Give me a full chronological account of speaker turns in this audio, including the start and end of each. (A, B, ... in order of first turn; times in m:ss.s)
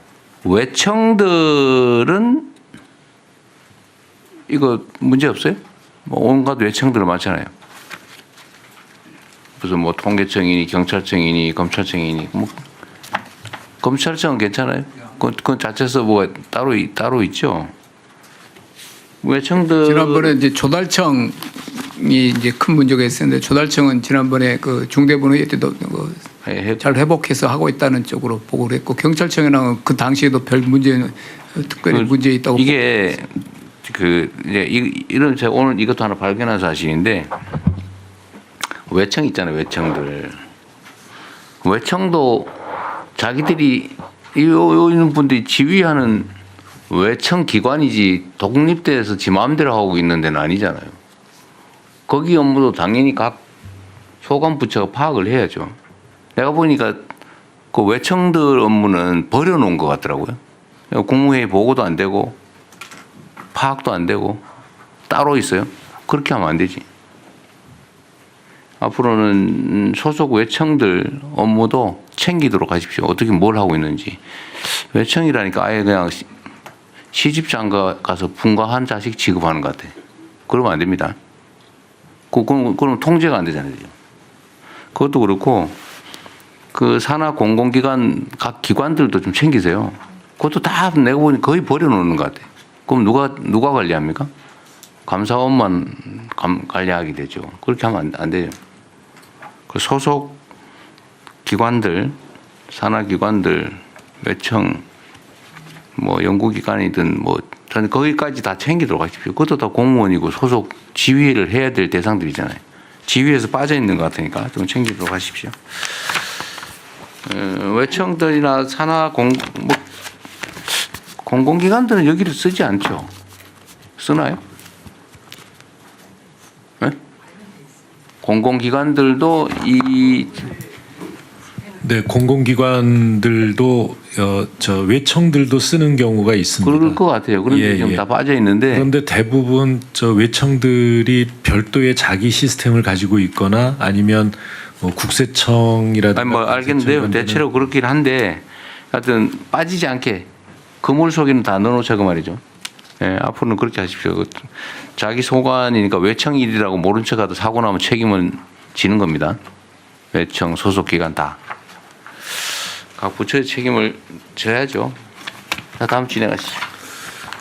0:00.4-0:02.5 A
0:04.5-0:07.5 A
0:09.6-0:12.5 A
0:13.8-0:17.7 A
0:19.2-0:20.3 A
0:19.8-0:26.2 B
0:26.4-0:26.8 A
0:26.8-0:32.7 B
0:31.9-0:37.3 A
0:38.9-0:40.4 A
0:41.6-0:42.5 A
0:43.2-0:46.3 A
0:46.9-0:50.9 A
0:52.1-0:53.4 A
0:54.2-0:55.7 A
0:56.4-0:57.0 A
0:57.7-1:00.4 A
1:00.9-1:02.4 A
1:03.5-1:04.4 A
1:05.1-1:06.8 A
1:08.8-1:16.3 A
1:17.1-1:19.9 A
1:20.5-1:21.2 A
1:22.3-1:23.9 A
1:24.9-1:25.8 A
1:26.7-1:34.3 A
1:35.0-1:38.6 A
1:39.7-1:40.4 A
1:41.4-1:42.1 A
1:42.7-1:44.8 A
1:46.0-1:56.2 A
1:57.2-1:59.8 A
2:00.7-2:03.1 A
2:04.0-2:04.4 A
2:08.2-2:10.5 A
2:11.8-2:18.0 C
2:16.6-2:18.9 A
2:18.7-2:27.4 C
2:26.1-2:30.3 A
2:30.8-2:32.4 A
2:33.0-2:39.4 A
2:40.1-2:41.4 A
2:43.0-2:45.0 A
2:45.8-2:46.6 A